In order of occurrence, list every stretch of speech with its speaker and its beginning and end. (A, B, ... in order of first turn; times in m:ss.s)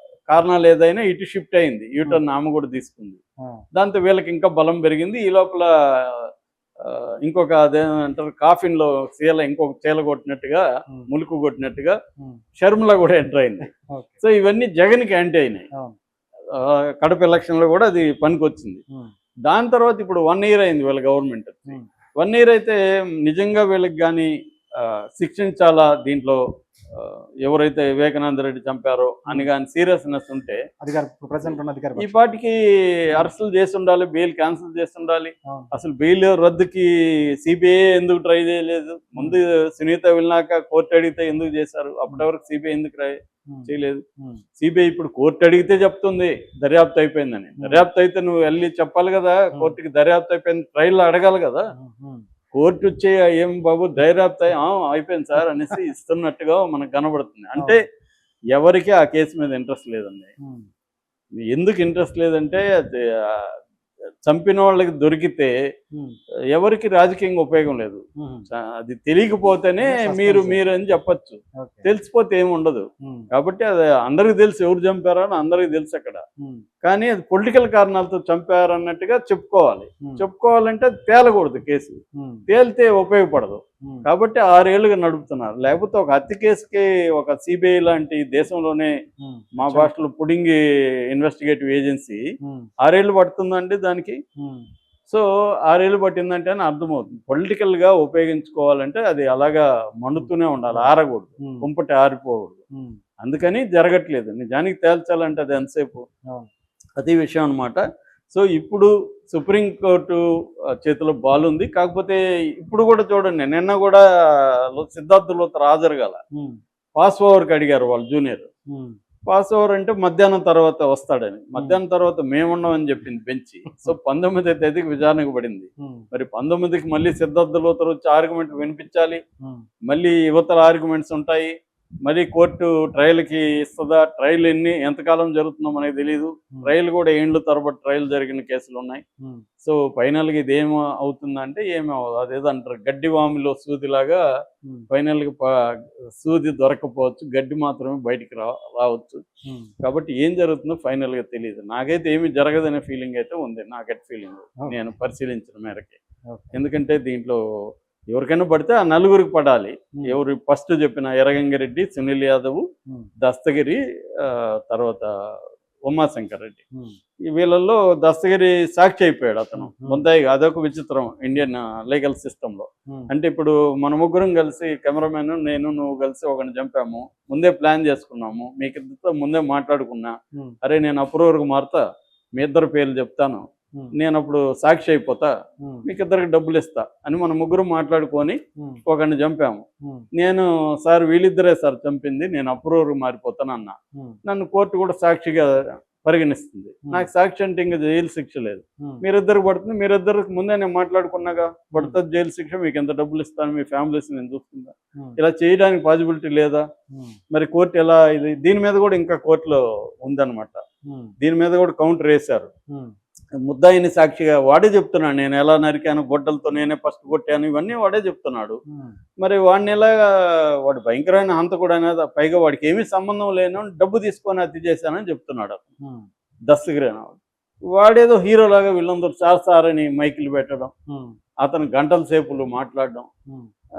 0:00.3-0:03.2 A
0:03.7-0:12.0 A
0:12.6-0:15.7 A
0:13.9-0:14.2 B
0:16.5-0:18.8 A
0:19.5-0:26.4 A
0:26.9-0:30.6 A
0:30.8-0:32.2 B
0:31.5-0:36.9 A
0:37.4-0:44.0 A
0:44.6-0:51.7 A
0:47.6-0:47.9 B
0:51.8-0:52.2 B
0:52.5-0:57.8 A
0:58.5-1:00.3 A
1:01.4-1:03.6 A
1:04.3-1:05.5 A
1:06.5-1:16.2 A
1:08.2-1:08.4 B
1:09.8-1:10.6 B
1:11.6-1:11.9 B
1:16.8-1:29.0 A
1:22.2-1:22.4 B
1:29.2-1:29.9 B
1:29.6-1:30.6 A
1:31.1-1:32.2 A
1:32.4-1:32.7 B
1:32.8-1:34.2 A
1:34.4-1:34.7 B
1:35.1-1:42.6 A
1:40.2-1:41.7 B
1:42.7-1:43.0 B
1:43.2-1:46.0 A
1:47.0-1:50.2 A
1:50.8-1:56.2 A
1:57.0-1:58.5 A
1:58.7-1:59.0 B
1:59.3-2:09.2 A
2:09.9-2:11.5 A
2:12.0-2:19.0 A
2:19.6-2:24.2 A
2:24.9-2:25.5 A
2:26.2-2:29.2 A
2:29.8-2:36.0 A
2:36.5-2:37.4 A
2:38.1-2:42.6 A
2:43.2-2:45.1 A
2:45.9-2:46.6 A
2:47.3-3:01.8 A
2:49.6-2:50.0 B
3:02.4-3:05.3 A
3:05.8-3:15.5 A
3:16.0-3:26.7 A
3:26.9-3:27.2 B
3:27.3-3:30.6 A
3:30.8-3:31.1 B
3:31.2-3:32.5 A
3:33.4-3:38.6 A
3:39.2-3:45.6 A
3:45.8-3:46.1 B
3:46.5-3:47.2 A
3:47.7-3:50.7 A
3:50.9-3:51.2 B
3:51.4-3:53.1 A